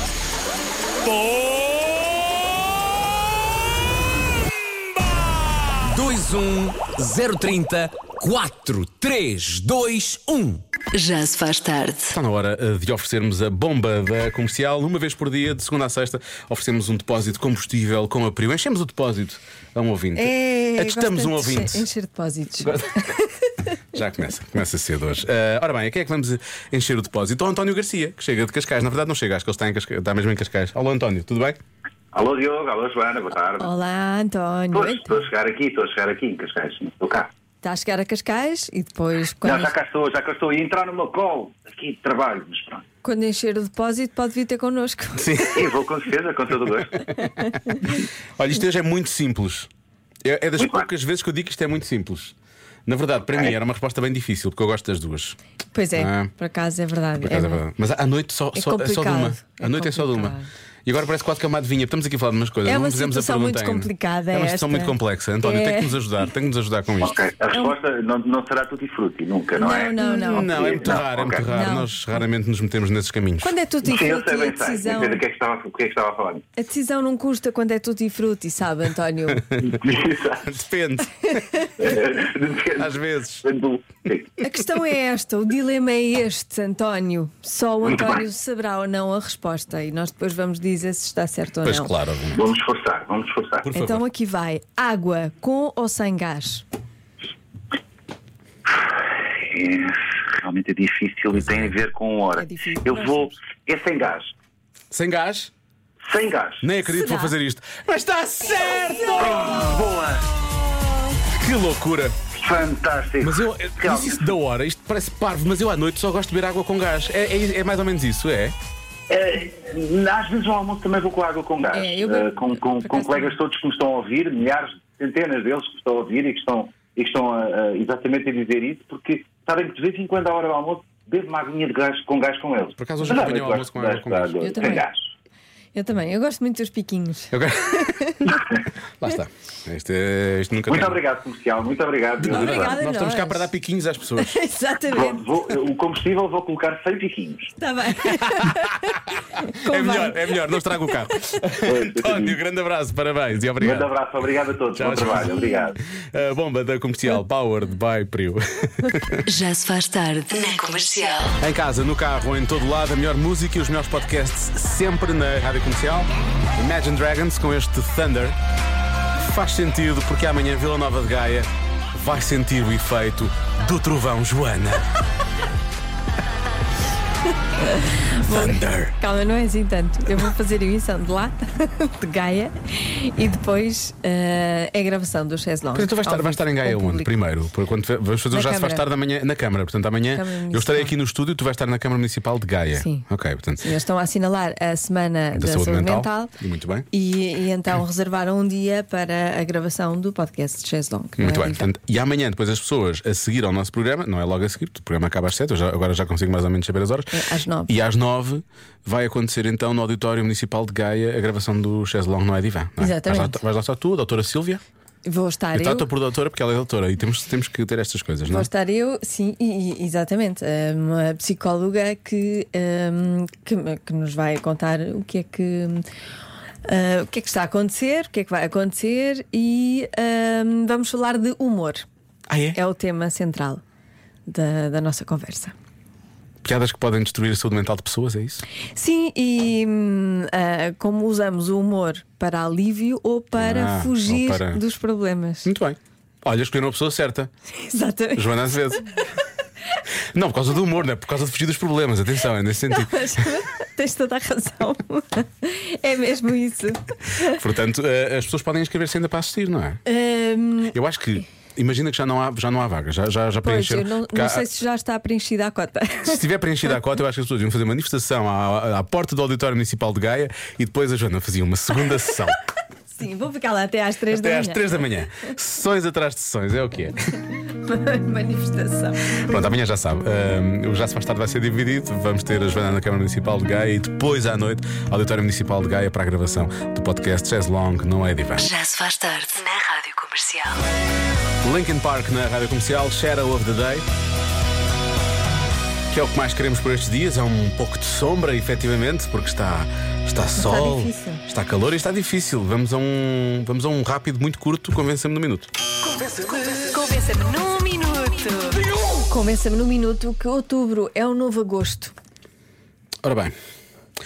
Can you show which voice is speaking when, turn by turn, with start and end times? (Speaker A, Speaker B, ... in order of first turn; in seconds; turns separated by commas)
Speaker A: 1.1-1.5, Speaker A: 5.8-10.6, Speaker B: 10.9-12.1, Speaker C: 12.1-21.8, Speaker D: 20.1-23.1, Speaker C: 22.6-23.0, Speaker C: 23.9-31.6, Speaker E: 32.1-33.7, Speaker D: 33.6-35.1, Speaker E: 34.7-37.3, Speaker D: 37.6-39.7, Speaker E: 39.4-42.8, Speaker D: 43.0-45.8, Speaker C: 45.2-45.6, Speaker E: 45.5-47.1, Speaker C: 47.1-49.7, Speaker C: 50.2-52.3, Speaker E: 50.6-50.8, Speaker C: 52.9-55.4, Speaker D: 55.7-57.6, Speaker C: 56.0-56.3, Speaker C: 57.2-67.2, Speaker D: 58.5-60.5, Speaker D: 62.6-66.0, Speaker E: 67.0-71.5, Speaker D: 69.6-72.2, Speaker C: 70.2-73.5, Speaker D: 73.4-75.2, Speaker E: 73.8-76.4, Speaker D: 76.5-79.5, Speaker E: 79.6-80.5, Speaker C: 80.4-81.4, Speaker E: 81.8-84.3, Speaker C: 82.8-83.5, Speaker D: 84.4-91.9, Speaker E: 87.8-88.2, Speaker C: 91.6-92.4, Speaker E: 92.3-93.7, Speaker C: 93.6-94.0, Speaker D: 93.7-96.6, Speaker E: 98.7-104.3, Speaker C: 101.3-101.8, Speaker D: 102.3-103.4, Speaker C: 104.9-105.5, Speaker E: 106.0-106.7, Speaker C: 106.6-109.8, Speaker D: 106.8-107.3, Speaker E: 109.2-110.2, Speaker C: 111.3-112.1, Speaker E: 112.4-114.4, Speaker C: 113.2-118.5, Speaker E: 119.1-135.0, Speaker D: 121.7-123.4, Speaker C: 132.8-134.3, Speaker D: 134.4-134.9, Speaker D: 135.7-137.3, Speaker C: 137.3-137.9, Speaker D: 137.8-138.3, Speaker C: 139.0-141.0, Speaker E: 140.7-142.8, Speaker C: 142.2-144.3, Speaker D: 142.3-143.5, Speaker D: 144.2-145.2, Speaker E: 144.9-147.5, Speaker D: 147.6-150.6, Speaker C: 149.2-153.9, Speaker E: 151.6-152.4, Speaker E: 153.6-155.8, Speaker C: 154.7-155.5, Speaker C: 156.1-159.2, Speaker B: 159.3-161.4, Speaker C: 161.4-168.3, Speaker C: 169.2-174.8, Speaker D: 177.8-187.1, Speaker C: 178.2-178.9, Speaker C: 185.7-193.6, Speaker D: 188.3-188.8, Speaker D: 190.1-190.9, Speaker D: 192.7-196.3, Speaker C: 195.3-196.9, Speaker D: 196.9-201.7, Speaker C: 201.2-207.1, Speaker D: 207.1-207.7, Speaker C: 207.7-214.6, Speaker D: 212.8-213.4, Speaker D: 215.0-215.9, Speaker C: 215.5-218.5, Speaker D: 218.3-225.8, Speaker D: 226.7-231.8, Speaker C: 232.3-232.6, Speaker D: 232.5-233.6, Speaker D: 234.3-235.5, Speaker C: 236.4-238.4, Speaker D: 238.8-245.5, Speaker C: 243.4-244.6, Speaker C: 245.4-247.3, Speaker D: 247.6-248.6, Speaker C: 248.1-248.9, Speaker C: 250.1-252.9, Speaker D: 252.7-257.4, Speaker C: 257.3-259.8, Speaker D: 259.9-260.7, Speaker C: 260.7-264.4, Speaker D: 263.4-266.2, Speaker C: 266.1-272.4, Speaker D: 272.9-274.9, Speaker C: 274.1-277.0, Speaker D: 277.4-279.2, Speaker C: 279.2-288.5, Speaker B: 288.4-290.6, Speaker C: 291.4-293.8, Speaker C: 295.9-305.5, Speaker D: 300.4-301.2, Speaker D: 306.0-311.9, Speaker C: 313.0-313.3